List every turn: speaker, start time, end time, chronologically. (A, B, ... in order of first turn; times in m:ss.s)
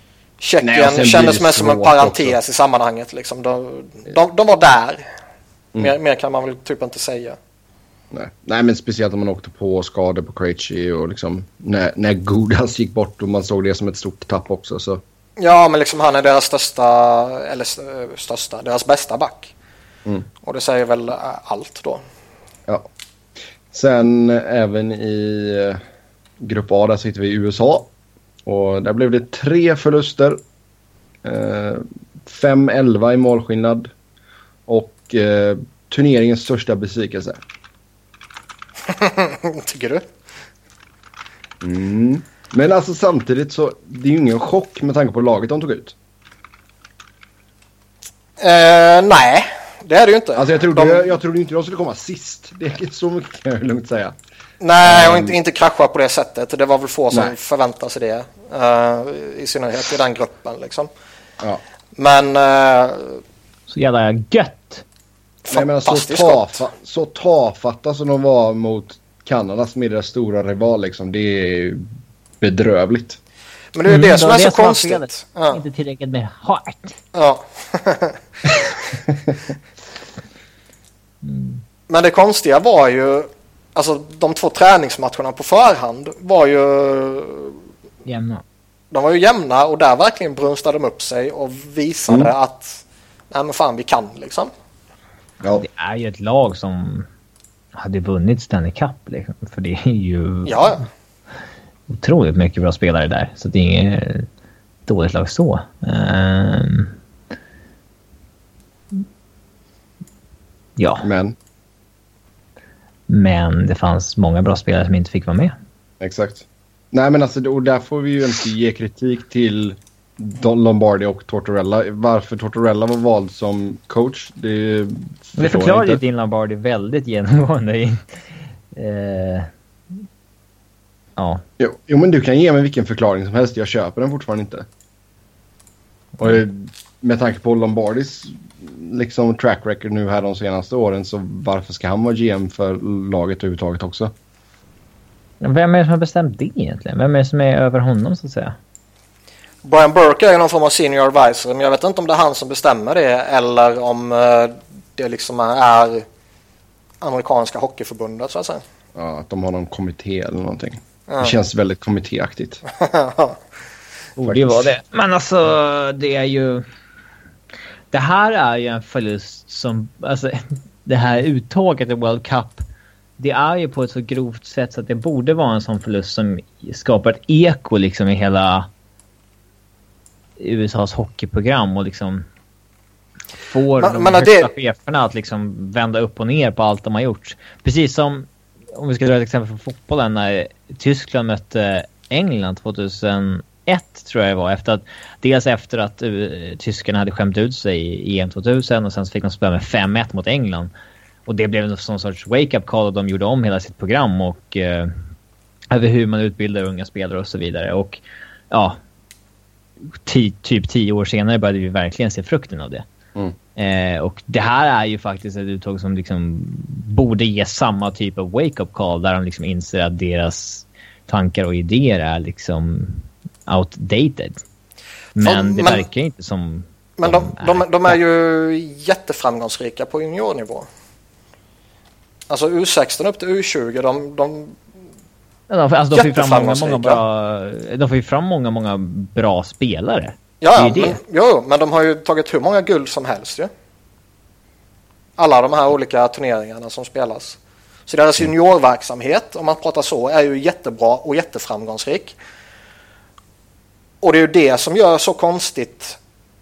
0:00.4-0:05.0 A
0:00.6-0:02.4 B
0:05.8-0:07.4 A
0:08.1-0:15.0 B
0:15.4-0:19.5 A
0:20.4-0:22.0 A
0:23.7-0:25.8 B
0:26.4-0:27.9 B
0:28.5-0:30.4 B
0:31.2-0:33.9 B
0:34.7-0:37.4 B
0:38.9-0:40.1 A
0:41.6-0:46.0 B
0:48.4-0:51.1 A
0:50.4-0:54.2 B
0:54.6-1:00.9 A
0:54.8-0:55.4 B
1:02.0-1:03.2 A
1:03.7-1:04.8 C
1:05.4-1:06.7 A
1:05.5-1:11.8 B
1:12.4-1:13.2 B
1:13.7-1:15.6 A
1:13.9-1:17.0 C
1:17.1-1:18.2 A
1:18.5-1:18.7 C
1:21.2-1:21.6 C
1:21.9-1:27.6 A
1:28.0-1:28.4 C
1:28.9-1:34.5 A
1:35.6-1:37.1 C
1:37.8-1:40.7 C
1:40.5-1:40.9 A
1:41.9-1:44.3 C
1:44.9-1:47.0 C
1:50.8-1:51.0 C
1:51.0-1:51.4 B
1:53.1-1:55.5 C
1:56.0-2:06.0 B
2:05.4-2:09.5 C
2:11.2-2:11.4 C
2:11.6-2:14.7 B
2:16.2-2:24.1 B
2:25.4-2:28.6 C
2:29.6-2:36.1 A
2:37.0-2:38.6 A
2:39.0-2:42.6 B
2:41.1-2:41.4 A
2:42.8-2:43.4 A
2:44.2-2:46.7 C
2:44.3-2:44.7 B
2:47.9-2:52.6 C
2:53.2-2:58.7 C
3:00.4-3:02.3 C
3:03.5-3:20.7 C
3:03.8-3:04.5 A
3:21.3-3:25.0 C
3:25.7-3:28.8 C
3:29.9-3:32.9 C
3:33.6-3:44.4 C
3:45.2-3:48.0 C
3:45.2-3:45.8 A
3:47.0-3:50.7 A
3:52.3-3:54.6 A
3:55.5-4:01.0 C
3:55.9-3:57.0 A
4:00.4-4:03.5 A
4:05.2-4:12.2 A
4:14.0-4:16.0 A